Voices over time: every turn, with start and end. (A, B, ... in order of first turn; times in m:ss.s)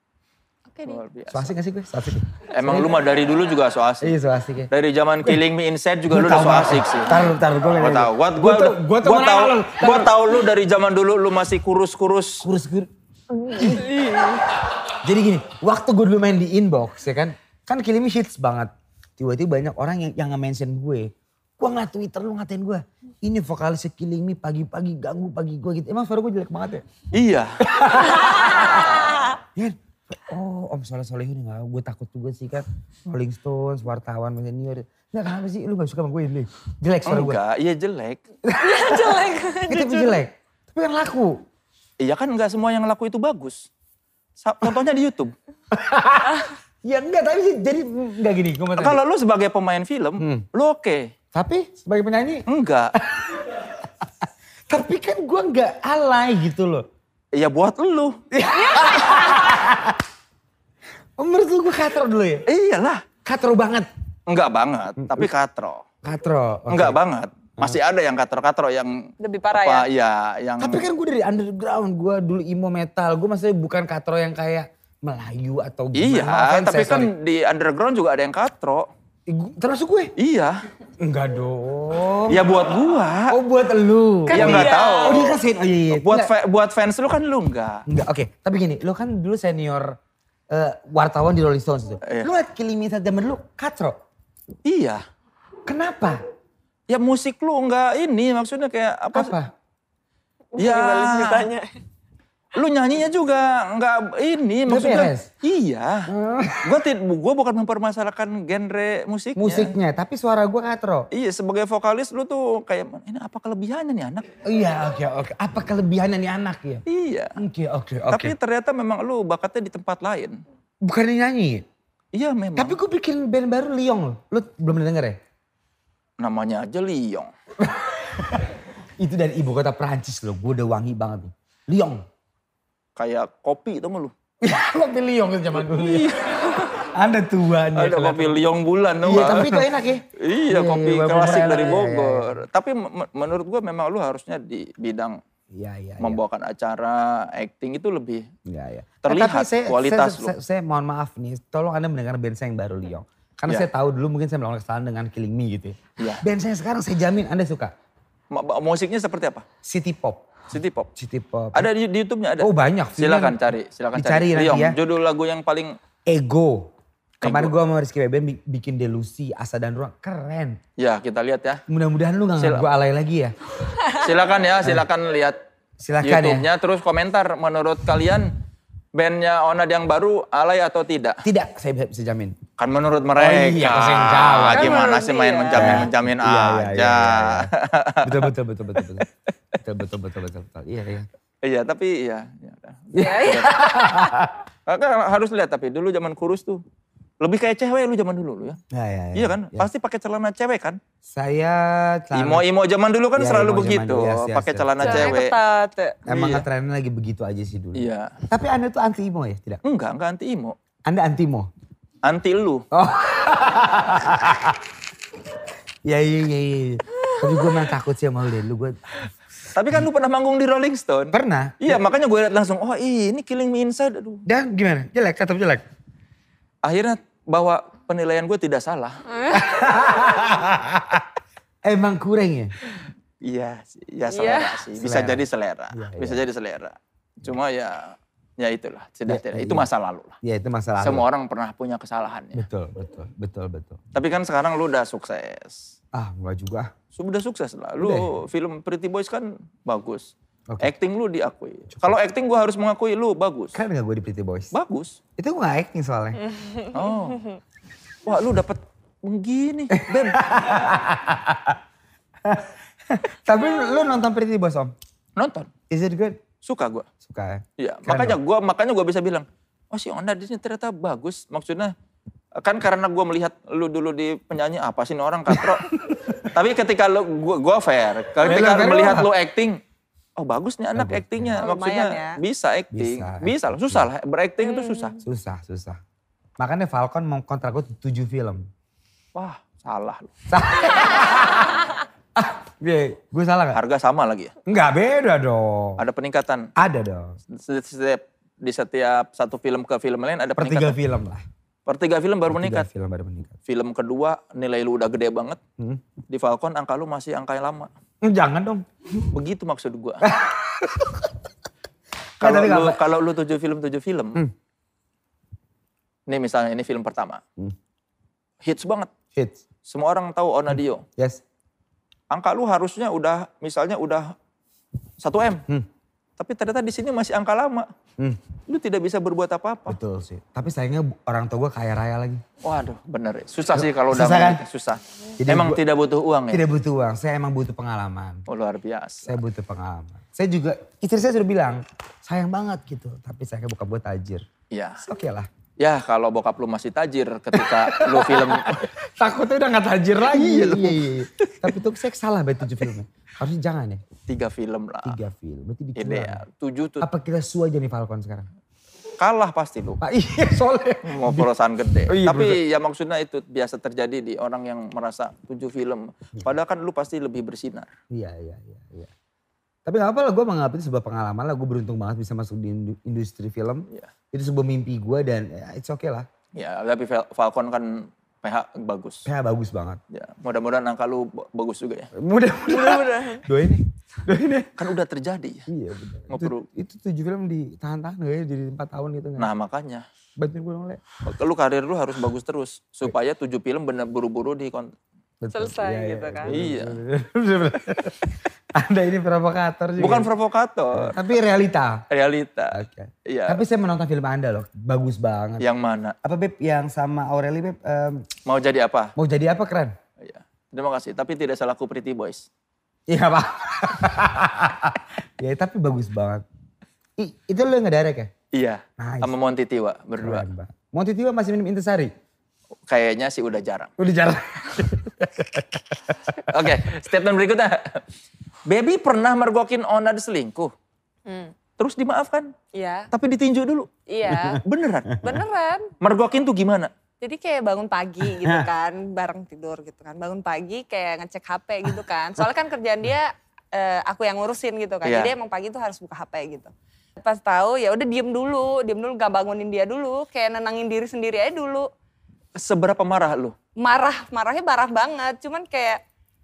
0:00.7-0:01.0 A
0:00.8-0:01.5 B
0:01.3-0:03.0 C
0:02.5-0:04.2 B
0:04.0-0:04.7 C
0:04.7-0:12.5 B
0:06.1-0:10.3 C
0:12.4-0:14.1 C
0:13.5-0:14.5 A
0:14.7-0:26.8 C
0:27.1-0:27.6 B
0:27.6-0:37.4 C
0:37.0-0:38.2 B
0:38.4-0:41.4 C
0:38.6-0:40.2 A
0:42.0-0:43.7 B
0:44.4-0:45.3 B
0:45.7-0:49.0 C
0:48.8-0:51.1 B
0:50.2-0:50.4 C
0:51.3-0:56.9 C
0:52.5-0:52.9 B
0:57.3-0:58.2 B
0:58.3-1:00.0 C
0:58.5-0:59.4 A
1:01.2-1:02.4 C
1:02.4-1:03.0 B
1:03.2-1:03.9 C
1:04.3-1:05.8 B
1:05.0-1:05.3 C
1:06.0-1:07.0 C
1:06.7-1:10.8 B
1:09.2-1:09.9 A
1:10.6-1:17.1 C
1:15.9-1:18.9 B
1:19.3-1:20.1 C
1:20.2-1:20.6 B
1:21.0-1:22.5 C
1:22.3-1:23.4 B
1:23.3-1:26.3 C
1:24.3-1:25.3 A
1:24.3-1:27.8 B
1:27.9-1:30.0 C
1:30.5-1:34.0 C
1:32.0-1:32.3 B
1:34.6-1:35.0 B
1:35.6-1:36.2 C
1:36.9-1:39.3 B
1:39.1-1:39.5 C
1:40.5-1:41.8 A
1:40.6-1:41.5 B
1:42.5-1:46.1 B
1:44.7-1:45.3 C
1:46.1-1:46.8 C
1:46.6-1:49.7 B
1:49.4-1:51.1 C
1:51.1-1:54.3 B
1:54.4-1:56.8 C
1:56.8-1:57.4 B
1:57.4-1:58.3 C
1:58.1-2:00.4 B
2:00.8-2:01.6 C
2:02.1-2:02.8 B
2:02.6-2:05.2 C
2:06.2-2:07.3 B
2:07.6-2:12.0 C
2:13.0-2:14.1 B
2:14.4-2:18.4 C
2:15.5-2:16.8 B
2:17.7-2:25.2 B
2:19.0-2:22.4 C
2:25.5-2:26.2 C
2:26.0-2:28.2 B
2:28.4-2:37.7 C
2:29.0-2:30.3 B
2:36.0-2:36.2 B
2:38.3-2:39.4 B
2:39.6-2:40.3 C
2:40.5-2:40.9 B
2:41.0-2:41.7 C
2:41.5-2:45.8 B
2:42.4-2:44.8 C
2:46.0-2:50.6 C
2:47.2-2:47.5 B
2:50.8-2:51.6 B
2:51.7-2:53.3 C
2:52.4-2:52.7 B
2:53.9-2:55.4 B
2:55.8-2:56.5 C
2:56.0-2:58.3 B
2:58.9-3:01.2 B
3:01.2-3:02.4 C
3:02.6-3:09.0 B
3:03.2-3:04.8 C
3:04.5-3:05.9 A
3:05.5-3:07.5 C
3:08.0-3:09.0 C
3:09.6-3:11.1 C
3:11.4-3:13.8 B
3:12.9-3:14.4 C
3:12.9-3:14.0 A
3:14.6-3:16.6 B
3:17.2-3:18.6 B
3:18.7-3:19.7 C
3:19.1-3:20.8 B
3:21.0-3:22.4 C
3:22.1-3:25.3 B
3:23.2-3:25.1 C
3:24.8-3:26.0 A
3:26.0-3:29.6 C
3:26.1-3:26.4 B
3:27.7-3:28.1 B
3:29.6-3:30.6 B
3:30.8-3:31.5 C
3:32.0-3:32.6 B
3:32.7-3:34.6 C
3:35.8-3:39.0 C
3:39.5-3:44.2 B
3:41.1-3:41.8 C
3:44.2-3:45.6 C
3:46.6-3:49.0 B
3:49.1-3:49.5 A
3:49.3-3:51.0 C
3:51.6-3:52.5 C
3:53.2-4:00.2 B
3:54.1-3:54.6 A
3:54.8-3:56.2 C
3:59.1-3:59.7 C
4:00.2-4:01.0 C
4:00.8-4:02.4 B
4:02.3-4:03.8 C
4:03.9-4:05.7 B
4:05.9-4:06.7 C
4:06.9-4:13.6 B
4:07.8-4:08.1 C
4:13.5-4:14.5 C
4:14.5-4:15.0 B
4:15.2-4:16.2 C
4:16.7-4:17.3 B
4:18.0-4:20.4 B
4:19.7-4:21.6 C
4:22.2-4:24.7 C
4:25.2-4:25.5 B
4:25.7-4:26.2 C
4:26.4-4:26.9 B
4:27.0-4:28.2 C
4:27.6-4:31.7 B
4:32.4-4:39.6 B
4:35.3-4:36.3 C
4:38.2-4:39.1 C
4:40.2-4:45.0 B
4:40.7-4:41.4 C
4:41.4-4:42.2 A
4:42.7-4:43.9 C
4:44.4-4:45.0 A
4:45.0-4:45.8 C
4:46.4-4:48.5 C
4:49.1-4:50.1 B
4:50.3-4:53.6 C
4:53.5-4:54.3 B
4:54.4-4:55.8 C
4:55.8-4:56.5 B
4:56.6-4:57.2 C
4:57.3-5:00.8 B
5:00.4-5:01.2 C
5:01.6-5:02.7 B
5:02.3-5:03.4 C
5:03.4-5:05.4 B
5:06.1-5:07.7 B
5:08.0-5:09.0 C
5:09.1-5:10.1 B
5:10.0-5:11.2 C
5:12.2-5:12.8 C
5:12.2-5:14.2 B
5:16.1-5:17.2 B
5:18.4-5:18.9 B
5:19.6-5:20.8 B
5:20.5-5:21.2 C
5:22.1-5:24.1 B
5:25.0-5:25.4 B
5:26.2-5:27.7 B
5:28.5-5:29.8 B
5:29.7-5:32.2 C
5:32.4-5:36.4 B
5:33.5-5:34.4 C
5:35.2-5:35.6 C
5:36.3-5:38.2 C
5:38.3-5:39.2 B
5:39.0-5:44.2 C
5:44.5-5:44.8 B
5:44.8-5:45.3 C
5:45.6-5:48.7 B
5:47.3-5:53.8 C
5:50.0-5:51.6 B
5:54.1-5:55.0 B
5:54.8-5:56.2 C
5:55.8-5:56.9 B
5:56.8-5:58.3 C
5:59.0-5:59.8 B
5:59.8-6:01.3 C
6:00.8-6:07.7 B
6:01.9-6:02.4 C
6:07.9-6:08.9 C
6:09.6-6:16.1 C
6:16.3-6:19.1 B
6:19.0-6:19.8 C
6:19.9-6:21.9 B
6:21.9-6:24.5 C
6:22.5-6:23.2 A
6:24.6-6:25.5 B
6:25.5-6:29.3 C
6:26.1-6:26.5 B
6:29.2-6:29.8 B
6:30.2-6:31.0 C
6:31.0-6:34.7 B
6:35.2-6:40.1 C
6:35.3-6:36.3 A
6:36.3-6:36.8 B
6:39.8-6:41.0 B
6:40.7-6:41.8 C
6:41.9-6:43.4 B
6:42.5-6:45.4 C
6:45.4-6:45.9 B
6:46.0-6:48.1 C
6:48.2-6:48.9 B
6:49.0-6:49.7 C
6:50.0-6:52.3 B
6:52.9-6:56.2 C
6:57.0-6:58.1 C
6:58.3-7:00.2 B
6:58.8-6:59.1 C
7:00.0-7:01.9 C
7:02.7-7:03.7 B
7:03.8-7:06.5 C
7:06.3-7:07.8 B
7:08.4-7:10.5 B
7:11.0-7:11.3 A
7:11.6-7:12.3 B
7:12.5-7:12.9 A
7:12.9-7:13.7 B
7:13.9-7:14.4 A
7:14.1-7:15.2 C
7:14.4-7:15.0 B
7:15.0-7:15.7 A
7:15.8-7:16.7 B
7:17.0-7:31.7 A
7:18.0-7:18.5 C
7:24.8-7:25.1 B
7:32.4-7:33.3 B
7:33.6-7:35.8 A